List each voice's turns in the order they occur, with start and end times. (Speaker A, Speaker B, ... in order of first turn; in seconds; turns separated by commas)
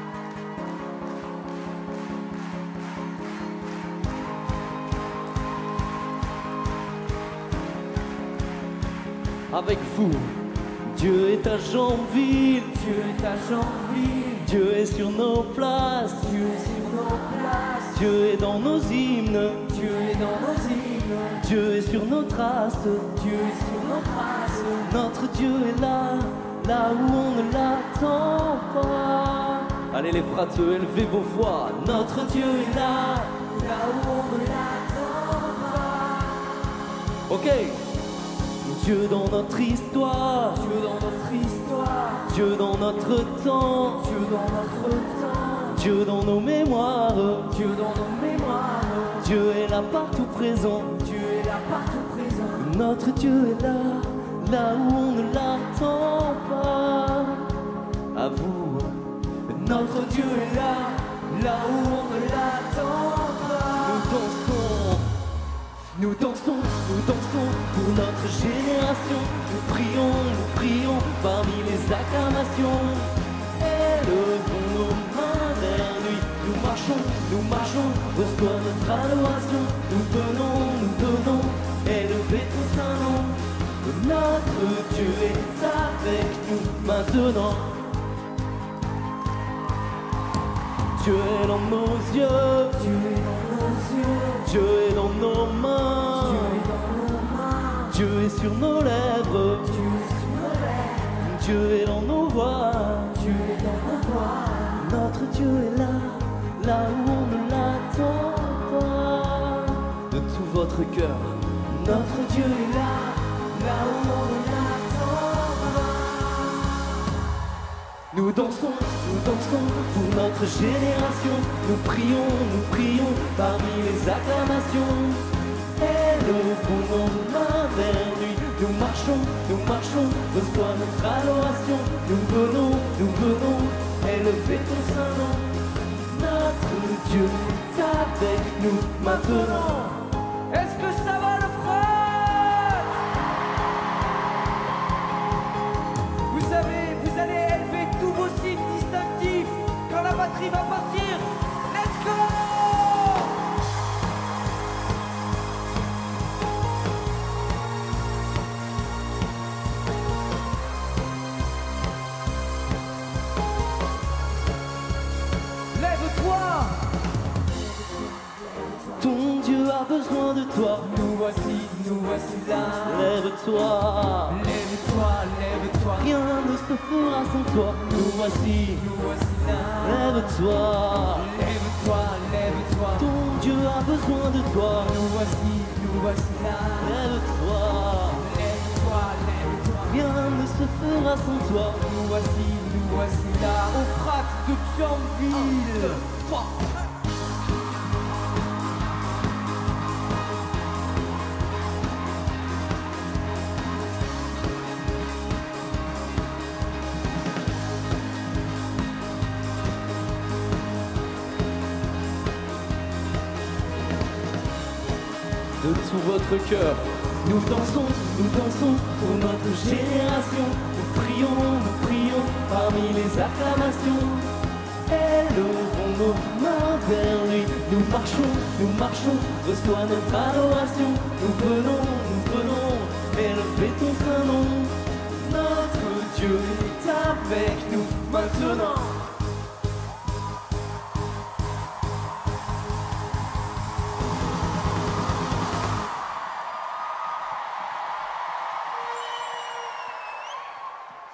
Speaker A: 9.5-12.8, Speaker B: 12.8-14.4, Speaker A: 14.3-16.4, Speaker B: 16.3-17.9, Speaker A: 17.9-19.8, Speaker B: 19.7-21.4, Speaker A: 21.3-23.2, Speaker B: 23.2-24.8, Speaker A: 24.8-33.5, Speaker B: 33.5-36.4, Speaker A: 37.3-37.9, Speaker A: 38.6-40.7, Speaker B: 40.6-42.2, Speaker A: 42.2-44.2, Speaker B: 44.1-45.7, Speaker A: 45.7-47.6, Speaker B: 47.5-49.2, Speaker A: 49.2-51.1, Speaker B: 51.0-52.6, Speaker A: 52.6-57.6, Speaker A: 58.1-61.4, Speaker B: 61.4-64.0, Speaker A: 63.8-65.2, Speaker A: 65.9-87.9, Speaker A: 90.9-93.0, Speaker B: 92.9-94.4, Speaker A: 94.3-96.7, Speaker B: 96.4-97.8, Speaker A: 97.8-99.9, Speaker B: 99.8-101.0, Speaker A: 101.0-103.3, Speaker B: 103.2-104.7, Speaker A: 104.7-113.8, Speaker B: 113.7-116.4, Speaker A: 118.1-140.0, Speaker B: 139.4-139.9, Speaker B: 140.5-143.0, Speaker B: 146.3-153.4, Speaker B: 165.7-166.8, Speaker A: 168.9-171.0, Speaker B: 170.9-173.0, Speaker A: 172.7-174.5, Speaker B: 174.3-176.0, Speaker A: 175.9-178.9, Speaker B: 178.8-179.8, Speaker A: 179.8-181.4, Speaker B: 181.3-183.0, Speaker A: 182.9-185.1, Speaker B: 185.0-186.9, Speaker A: 186.7-188.3, Speaker B: 188.2-189.9, Speaker A: 189.8-192.0, Speaker B: 191.9-196.2, Speaker A: 215.6-239.1